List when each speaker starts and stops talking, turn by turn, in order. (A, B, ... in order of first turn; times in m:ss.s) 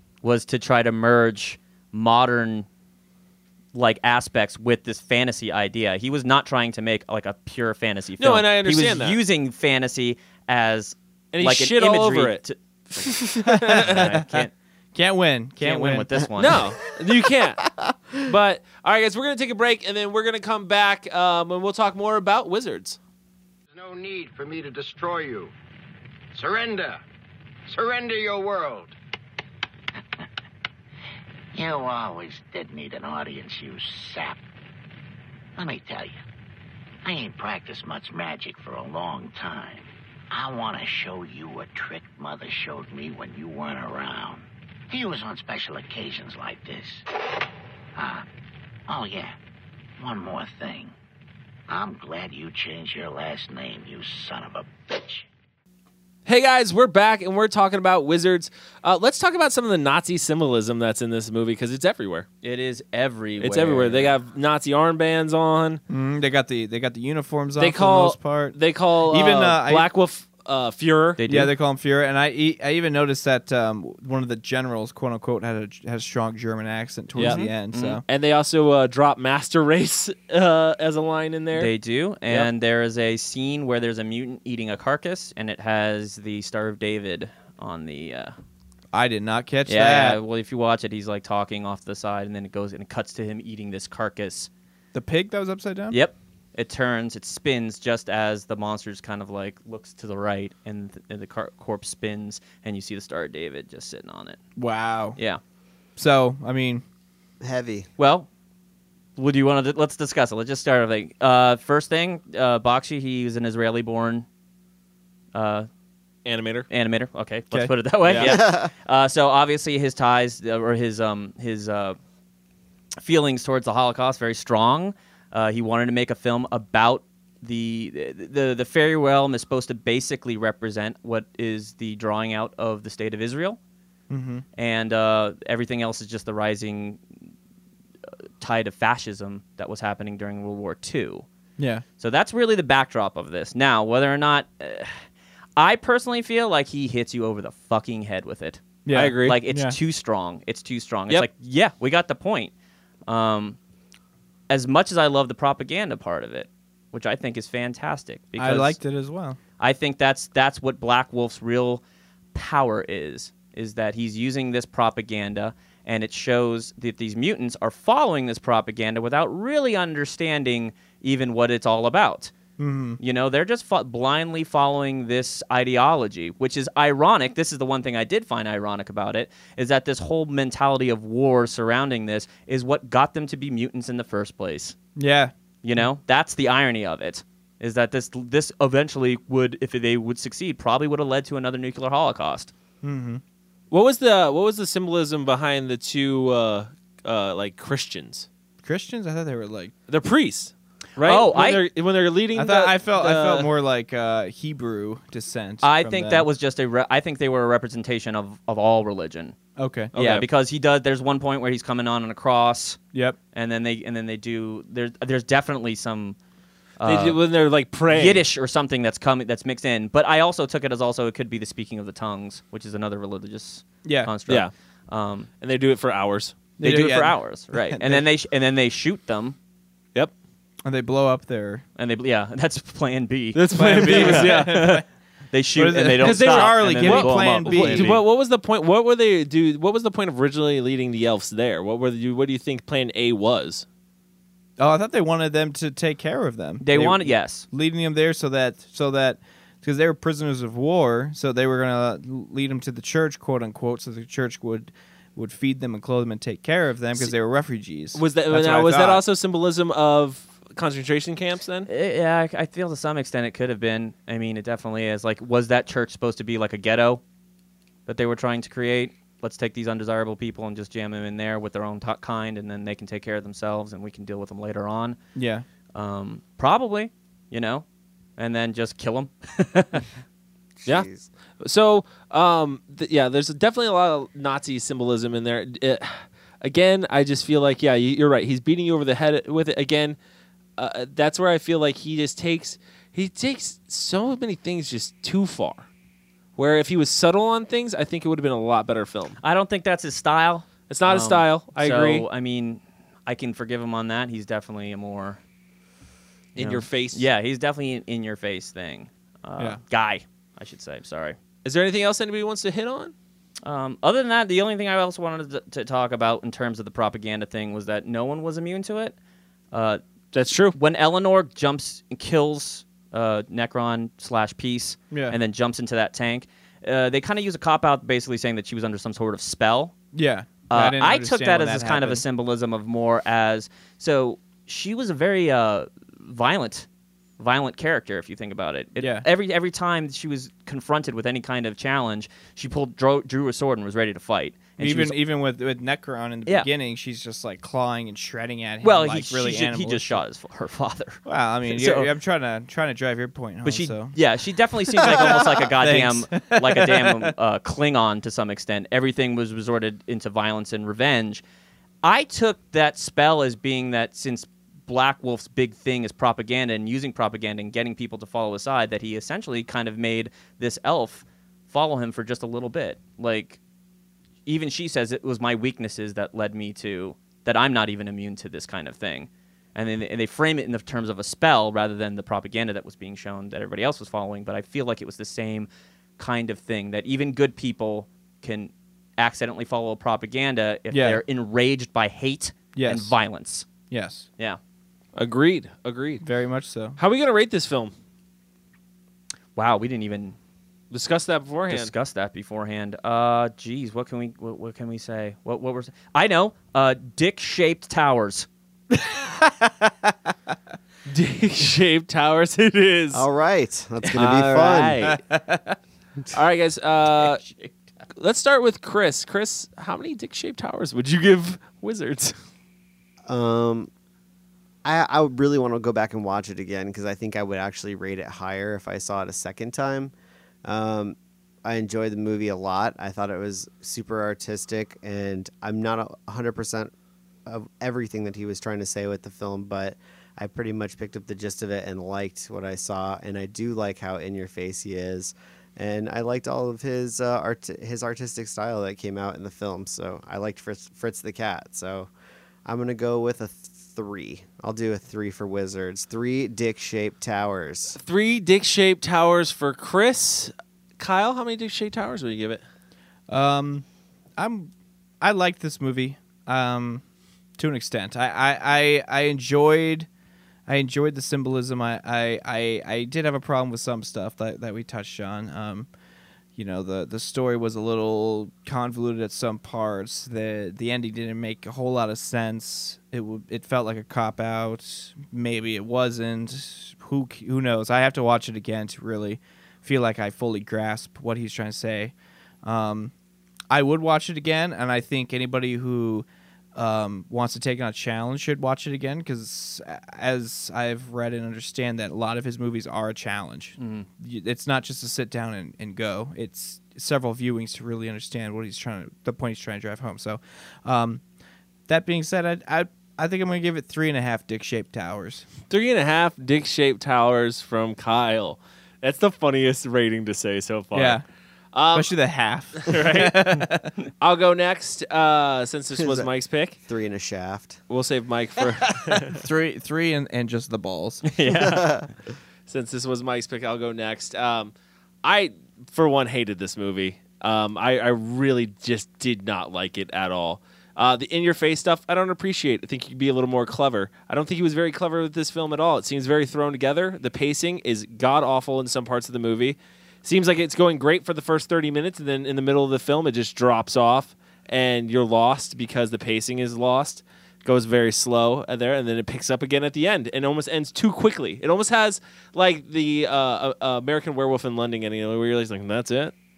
0:00.2-0:02.7 A
0:03.7-0:13.1 A
0:08.2-0:09.2 B
0:11.3-0:14.1 B
0:13.5-0:14.3 C
0:13.8-0:14.5 A
0:14.9-0:16.1 C
0:15.6-0:16.7 A
0:16.4-0:17.7 B
0:18.2-0:23.0 B
0:23.7-0:25.5 D
0:26.3-0:27.0 D
0:27.7-0:29.0 D
0:31.5-0:34.4 E
0:35.6-0:36.2 E
0:37.0-0:47.0 E
0:48.0-0:48.2 E
0:48.9-0:49.4 E
0:50.0-0:50.9 E
0:51.7-0:55.3 E
0:56.3-1:02.3 B
1:02.4-1:04.1 A
1:03.4-1:05.8 B
1:05.9-1:08.6 C
1:07.6-1:11.2 B
1:09.1-1:09.9 C
1:11.2-1:11.5 A
1:11.2-1:18.0 C
1:17.2-1:17.5 B
1:17.2-1:18.0 A
1:18.0-1:21.7 B
1:21.5-1:28.4 A
1:28.9-1:30.2 C
1:29.7-1:34.5 A
1:34.9-1:36.0 C
1:35.9-1:44.4 A
1:44.6-1:45.2 C
1:45.2-1:45.4 A
1:46.0-1:46.8 C
1:47.4-1:47.9 F
1:48.0-1:48.3 A
1:49.2-1:54.3 A
1:55.3-1:55.7 A
1:56.2-1:56.7 B
1:56.7-2:02.0 A
1:58.1-1:58.4 B
1:58.1-1:58.7 F
2:03.0-2:13.6 A
2:14.1-2:14.4 C
2:14.6-2:17.0 A
2:18.4-2:21.2 A
2:21.6-2:21.8 C
2:22.0-2:25.0 A
2:25.6-2:28.6 A
2:28.8-2:29.8 C
2:28.9-2:29.4 B
2:29.2-2:32.5 A
2:33.1-2:33.6 A
2:34.5-2:38.8 A
2:38.4-2:39.4 C
2:39.6-2:41.8 A
2:42.3-2:52.3 A
2:52.6-2:53.0 C
2:53.0-3:04.8 A
3:05.0-3:05.9 C
3:05.6-3:12.5 A
3:12.8-3:13.2 C
3:13.7-3:18.3 B
3:18.6-3:19.7 C
3:19.9-3:23.5 B
3:21.0-3:21.6 A
3:22.4-3:26.3 C
3:25.6-3:29.4 A
3:29.6-3:30.2 C
3:29.9-3:32.8 A
3:33.4-3:36.2 A
3:36.8-3:37.2 A
3:36.8-3:38.2 B
3:37.9-3:45.3 A
3:43.8-3:44.1 C
3:45.4-3:46.4 B
3:46.6-3:48.1 C
3:46.6-3:49.4 A
3:50.6-3:51.6 C
3:51.8-3:58.0 A
3:53.3-3:54.7 B
3:53.5-3:54.8 C
3:55.6-3:58.0 C
3:56.0-4:03.6 B
4:04.6-4:19.0 C
4:06.6-4:07.5 A
4:18.0-4:21.7 B
4:21.7-4:27.0 A
4:27.9-4:35.0 A
4:35.2-4:35.4 C
4:35.8-4:37.6 A
4:38.2-4:39.9 A
4:40.6-4:41.1 F
4:41.4-4:50.0 B
4:50.6-4:55.7 B
4:56.4-4:59.2 B
4:59.2-5:05.2 A
5:00.7-5:02.1 B
5:06.4-5:07.0 B
5:06.4-5:11.2 A
5:11.4-5:12.9 B
5:13.4-5:19.0 A
5:19.5-5:19.8 A
5:20.1-5:20.6 B
5:20.5-5:29.8 A
5:24.9-5:25.2 C
5:29.9-5:32.0 C
5:30.5-5:36.7 A
5:37.2-5:45.0 A
5:38.8-5:39.1 C
5:44.6-5:50.0 C
5:48.6-5:51.9 A
5:51.0-5:54.0 C
5:53.4-6:01.2 A
5:54.7-5:57.1 C
6:01.8-6:13.4 A
6:14.3-6:33.5 A
6:30.7-6:31.0 C
6:32.5-6:33.0 C
6:33.7-6:34.1 C
6:35.0-6:36.0 B
6:36.0-6:36.8 C
6:36.8-6:37.7 B
6:39.4-6:40.2 A
6:40.7-6:41.7 B
6:41.5-6:48.3 A
6:48.8-6:49.5 C
6:50.9-6:53.1 B
6:52.9-6:54.9 F
6:54.0-6:55.0 B
6:55.1-6:55.6 C
6:56.1-6:57.2 B
6:57.2-6:57.5 A
6:58.0-7:02.2 B
7:03.1-7:03.7 F
7:04.6-7:09.9 F
7:10.4-7:16.7 F
7:17.3-7:31.9 F
7:32.4-7:37.8 F
7:37.8-7:42.4 B
7:43.1-7:43.6 C
7:44.2-7:46.8 C
7:47.4-7:49.9 C
7:50.5-7:55.7 C
7:56.4-8:12.9 C
8:13.5-8:31.0 C
8:23.6-8:23.9 A
8:31.7-8:35.3 C
8:35.5-8:41.0 B
8:40.8-8:41.0 C
8:41.5-8:41.9 B
8:41.7-8:43.7 C
8:42.6-8:43.2 B
8:44.0-8:46.6 B
8:45.8-8:46.1 F
8:46.6-8:47.6 F
8:47.7-8:49.2 B
8:49.1-8:51.1 C
8:51.0-8:51.7 A
8:51.3-8:51.9 F
8:52.5-8:54.5 B
8:55.0-9:26.1 B